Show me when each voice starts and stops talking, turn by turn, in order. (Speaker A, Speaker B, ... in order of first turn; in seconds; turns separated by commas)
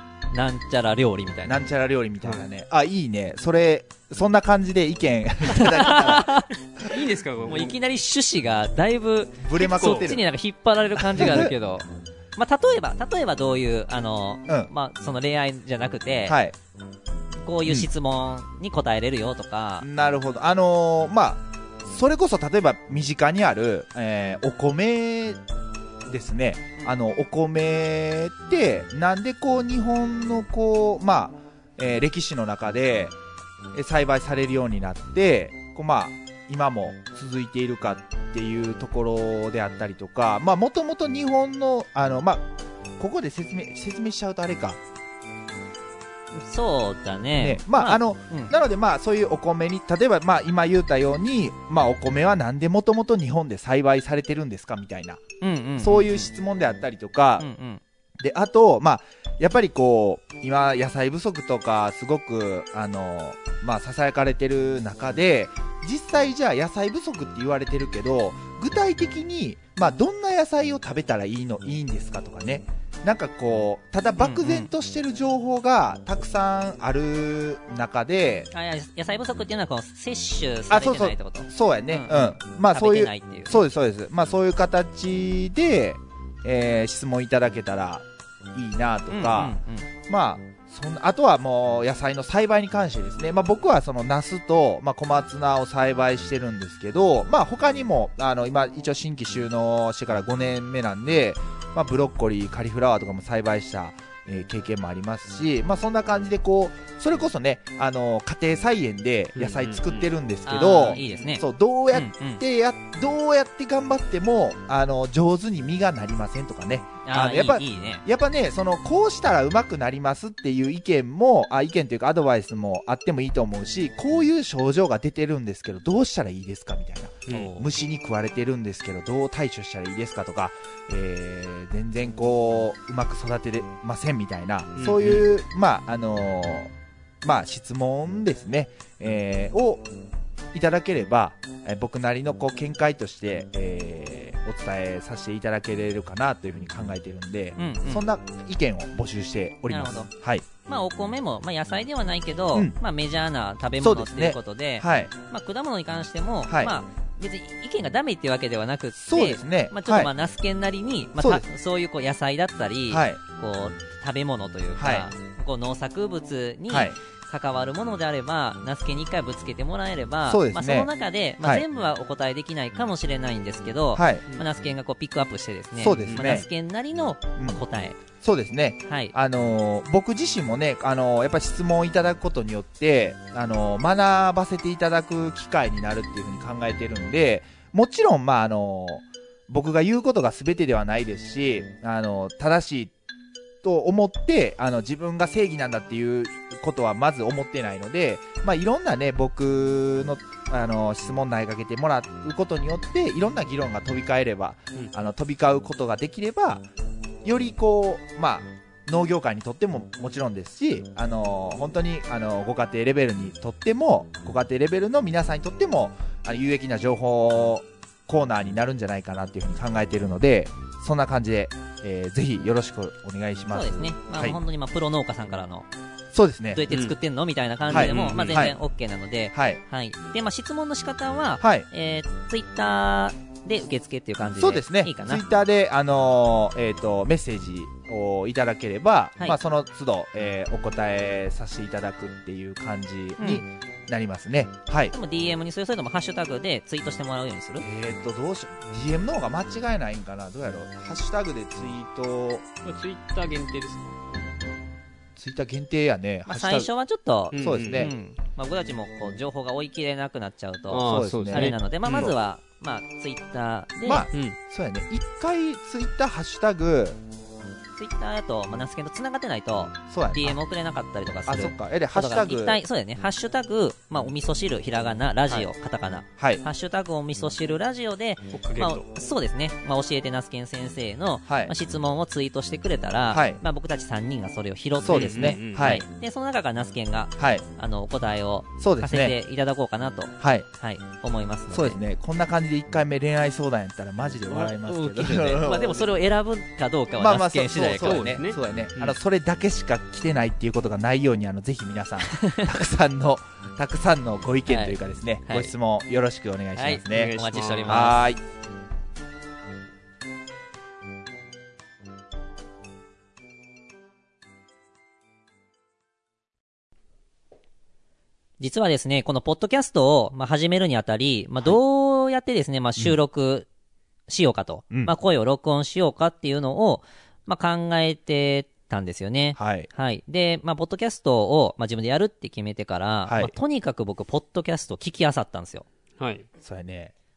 Speaker A: 0.3-1.6, Speaker B: 1.5-6.9, Speaker A: 5.5-6.5, Speaker C: 6.8-7.8, Speaker A: 7.5-16.4, Speaker B: 9.4-10.2, Speaker C: 9.7-10.1, Speaker B: 11.0-11.5, Speaker B: 16.3-16.6, Speaker A: 17.4-19.9, Speaker B: 19.8-25.4, Speaker B: 26.1-33.2, Speaker B: 33.7-44.8, Speaker A: 46.4-48.5, Speaker B: 47.4-55.2, Speaker A: 55.4-56.3, Speaker B: 55.8-57.5, Speaker A: 57.4-57.8, Speaker B: 58.2-78.5, Speaker A: 74.2-74.7, Speaker A: 78.5-83.6, Speaker B: 80.7-136.7, Speaker A: 89.1-89.9, Speaker C: 109.4-110.1, Speaker A: 110.5-112.4, Speaker C: 110.9-111.3, Speaker A: 117.0-118.0, Speaker C: 127.3-127.7, Speaker C: 134.8-135.3, Speaker B: 137.2-139.9, Speaker B: 140.5-150.5, Speaker A: 147.6-148.1, Speaker A: 149.7-150.1, Speaker A: 150.7-178.0, Speaker B: 153.8-155.1, Speaker B: 156.5-156.7, Speaker B: 159.0-160.1, Speaker B: 161.2-161.4, Speaker B: 162.9-163.2, Speaker B: 164.8-165.1, Speaker B: 166.7-167.0, Speaker B: 170.3-170.9, Speaker B: 173.9-174.2, Speaker B: 175.8-176.5, Speaker B: 178.2-192.9, Speaker A: 178.9-179.1, Speaker B: 193.6-206.7, Speaker B: 207.2-224.4, Speaker A: 223.5-225.7, Speaker B: 226.1-226.6, Speaker A: 226.5-235.2, Speaker C: 226.7-227.0, Speaker C: 227.7-228.5, Speaker B: 227.7-228.6, Speaker B: 229.3-229.6, Speaker B: 231.4-231.7, Speaker B: 234.4-244.9, Speaker A: 243.2-243.4, Speaker A: 244.9-247.7, Speaker B: 247.6-252.4, Speaker C: 252.6-254.1, Speaker B: 255.2-256.7, Speaker A: 256.3-264.1, Speaker C: 257.3-257.9, Speaker B: 257.4-257.9, Speaker C: 260.7-262.1, Speaker B: 260.9-261.6, Speaker B: 263.8-267.0, Speaker C: 264.1-264.4, Speaker A: 267.8-291.8, Speaker B: 269.9-270.4, Speaker B: 271.3-272.6, Speaker B: 276.2-276.4, Speaker C: 278.3-278.9, Speaker B: 281.3-281.5, Speaker B: 283.1-283.4, Speaker B: 284.8-285.8, Speaker C: 284.9-285.7, Speaker B: 287.2-287.4, Speaker B: 288.6-289.2, Speaker B: 290.2-290.5, Speaker B: 291.5-295.9, Speaker A: 294.3-298.2, Speaker B: 297.0-308.2, Speaker C: 297.8-299.0, Speaker A: 302.1-302.5, Speaker A: 304.5-305.5, Speaker A: 306.6-308.0, Speaker C: 306.9-307.9, Speaker A: 318.4-323.5, Speaker A: 324.1-335.7, Speaker B: 329.4-329.7, Speaker B: 333.1-333.3, Speaker C: 336.0-336.3, Speaker B: 336.4-336.9